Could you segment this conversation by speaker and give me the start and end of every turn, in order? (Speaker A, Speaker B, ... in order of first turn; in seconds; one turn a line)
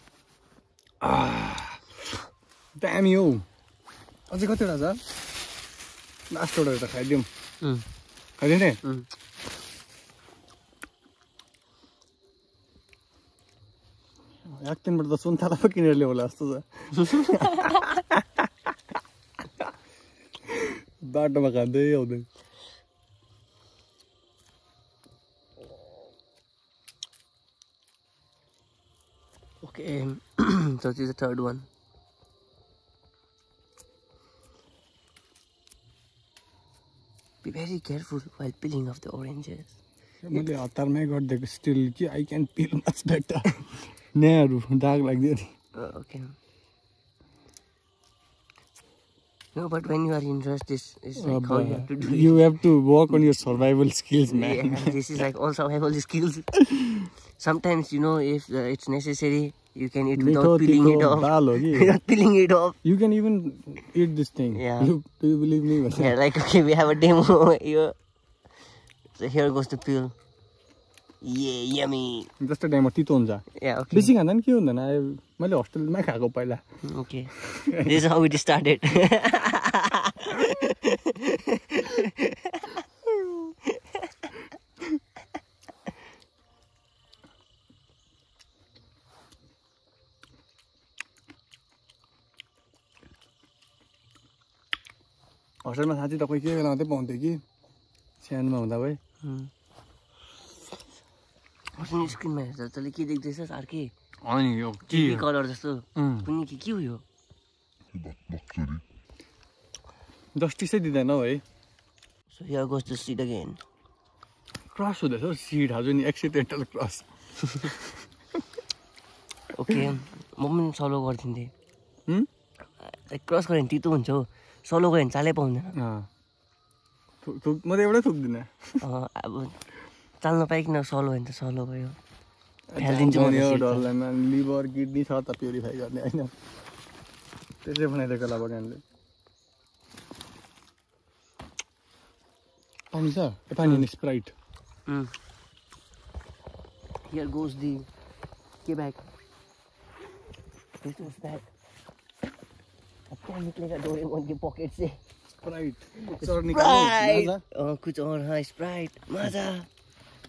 Speaker A: 1.0-2.1
Speaker A: 2.8-3.5
Speaker A: 4.3-5.0
Speaker A: 6.3-7.3
Speaker B: 7.6-7.8
Speaker A: 8.4-8.8
Speaker A: 14.4-18.4
Speaker B: 17.0-17.4
Speaker A: 20.4-22.3
Speaker B: 29.6-31.7
Speaker B: 37.4-39.8
Speaker A: 40.2-45.5
Speaker B: 45.7-46.3
Speaker B: 49.5-52.5
Speaker A: 51.2-55.0
Speaker B: 54.3-56.6
Speaker A: 56.7-57.1
Speaker B: 57.4-62.8
Speaker A: 60.1-62.0
Speaker A: 62.8-66.1
Speaker B: 64.5-64.9
Speaker B: 65.9-67.9
Speaker B: 69.1-70.1
Speaker B: 71.2-72.3
Speaker A: 72.4-76.6
Speaker B: 73.5-74.1
Speaker B: 76.8-82.8
Speaker A: 77.4-78.1
Speaker B: 83.6-84.1
Speaker A: 95.6-97.4
Speaker A: 98.2-99.0
Speaker B: 99.2-99.5
Speaker B: 101.7-103.9
Speaker A: 104.2-105.3
Speaker B: 104.9-107.0
Speaker A: 106.0-106.3
Speaker A: 110.3-111.4
Speaker B: 112.3-113.6
Speaker A: 114.7-117.9
Speaker B: 119.5-121.5
Speaker B: 122.8-125.7
Speaker A: 125.7-126.1
Speaker A: 127.2-128.8
Speaker B: 128.8-129.6
Speaker B: 130.2-132.0
Speaker A: 132.7-136.3
Speaker B: 132.8-133.9
Speaker A: 137.6-138.8
Speaker A: 142.9-144.3
Speaker B: 144.9-145.1
Speaker B: 147.1-147.9
Speaker B: 148.6-149.0
Speaker B: 150.8-151.5
Speaker B: 153.1-155.0
Speaker A: 155.4-157.4
Speaker B: 156.0-159.7